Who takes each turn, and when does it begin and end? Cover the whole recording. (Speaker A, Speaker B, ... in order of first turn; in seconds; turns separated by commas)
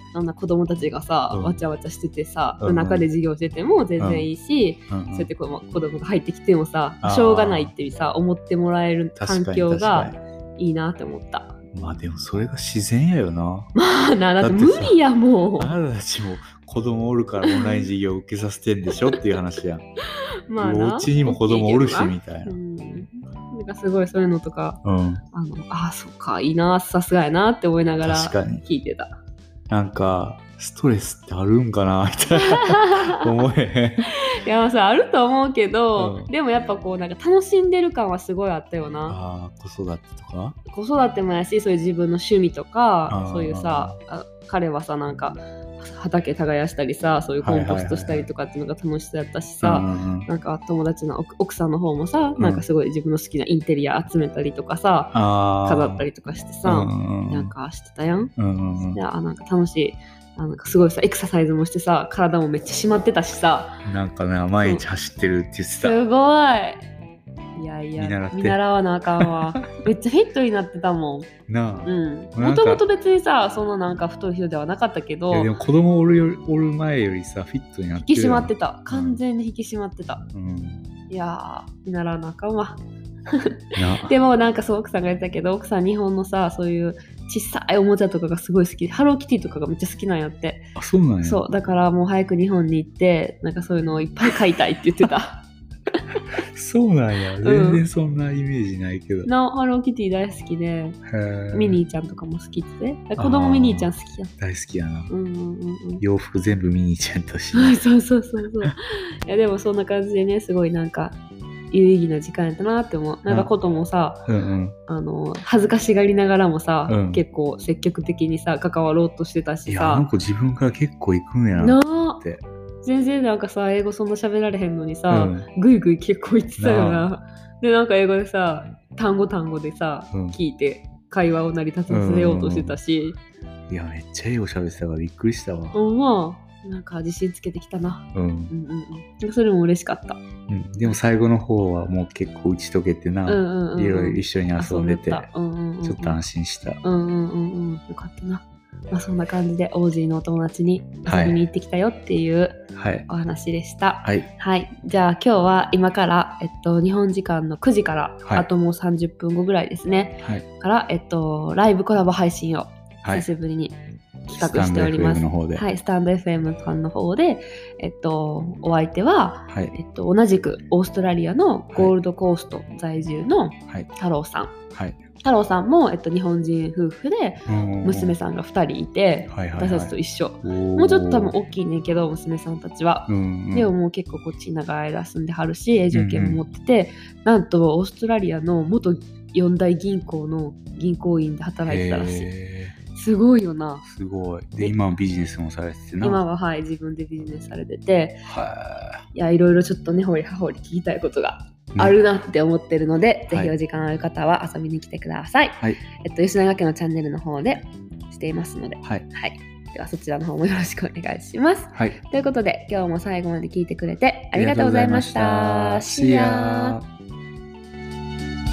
Speaker A: 0.1-11.6, Speaker B: 1.3-1.6, Speaker B: 2.6-3.1, Speaker B: 4.0-4.3, Speaker B: 4.9-5.3, Speaker B: 7.0-7.7, Speaker B: 9.2-10.2, Speaker B: 11.7-13.7, Speaker A: 13.7-15.7, Speaker B: 14.4-15.0, Speaker B: 15.6-19.9, Speaker A: 17.4-17.9, Speaker A: 20.5-24.8, Speaker B: 20.6-22.6, Speaker B: 24.8-25.2, Speaker A: 25.3-29.1, Speaker B: 28.0-28.6, Speaker B: 29.7-34.1, Speaker A: 32.4-33.3, Speaker A: 34.1-39.2, Speaker B: 36.0-36.3, Speaker B: 39.1-40.6, Speaker A: 40.7-58.3, Speaker B: 43.1-44.0, Speaker B: 47.4-48.3, Speaker B: 49.6-50.3, Speaker B: 52.4-52.6, Speaker B: 55.1-56.0, Speaker B: 56.6-57.5, Speaker B: 58.4-59.0, Speaker A: 58.9-63.8, Speaker B: 63.8-66.0, Speaker A: 65.8-66.8, Speaker A: 67.5-71.3, Speaker B: 68.0-68.6, Speaker B: 69.2-69.6, Speaker B: 71.5-72.8, Speaker A: 71.8-75.5, Speaker B: 75.3-79.2, Speaker A: 78.0-80.2, Speaker B: 80.3-80.8, Speaker A: 81.1-90.7, Speaker B: 83.8-84.2, Speaker B: 90.8-91.4, Speaker A: 91.2-95.4, Speaker B: 96.4-99.3, Speaker A: 97.4-97.8, Speaker A: 99.2-101.0, Speaker B: 101.1-101.8, Speaker A: 101.5-104.3, Speaker B: 103.2-105.1, Speaker A: 105.1-106.0, Speaker B: 106.0-107.8, Speaker A: 107.5-111.2, Speaker A: 111.7-114.2, Speaker B: 114.3-114.7, Speaker A: 114.9-120.1, Speaker B: 116.9-117.2, Speaker B: 119.7-122.4, Speaker A: 121.5-122.2, Speaker A: 122.8-133.2, Speaker B: 125.1-125.5, Speaker B: 126.6-127.1, Speaker B: 130.1-130.4, Speaker B: 131.9-132.8, Speaker B: 133.7-135.8, Speaker A: 135.7-140.2, Speaker B: 138.1-138.5, Speaker B: 140.5-145.3, Speaker A: 143.3-146.2, Speaker B: 145.8-146.8, Speaker A: 146.8-174.6, Speaker B: 151.1-151.4, Speaker B: 152.7-153.1, Speaker B: 154.0-154.3, Speaker B: 164.3-165.7, Speaker B: 169.5-169.7, Speaker B: 174.7-175.0, Speaker A: 175.2-192.3, Speaker B: 177.5-178.2, Speaker B: 179.3-181.3, Speaker B: 183.1-183.7, Speaker B: 185.9-186.4, Speaker B: 191.7-192.7, Speaker A: 192.9-193.8, Speaker B: 193.8-196.2, Speaker A: 196.0-198.2, Speaker B: 198.2-199.0, Speaker A: 199.1-216.8, Speaker B: 214.3-216.8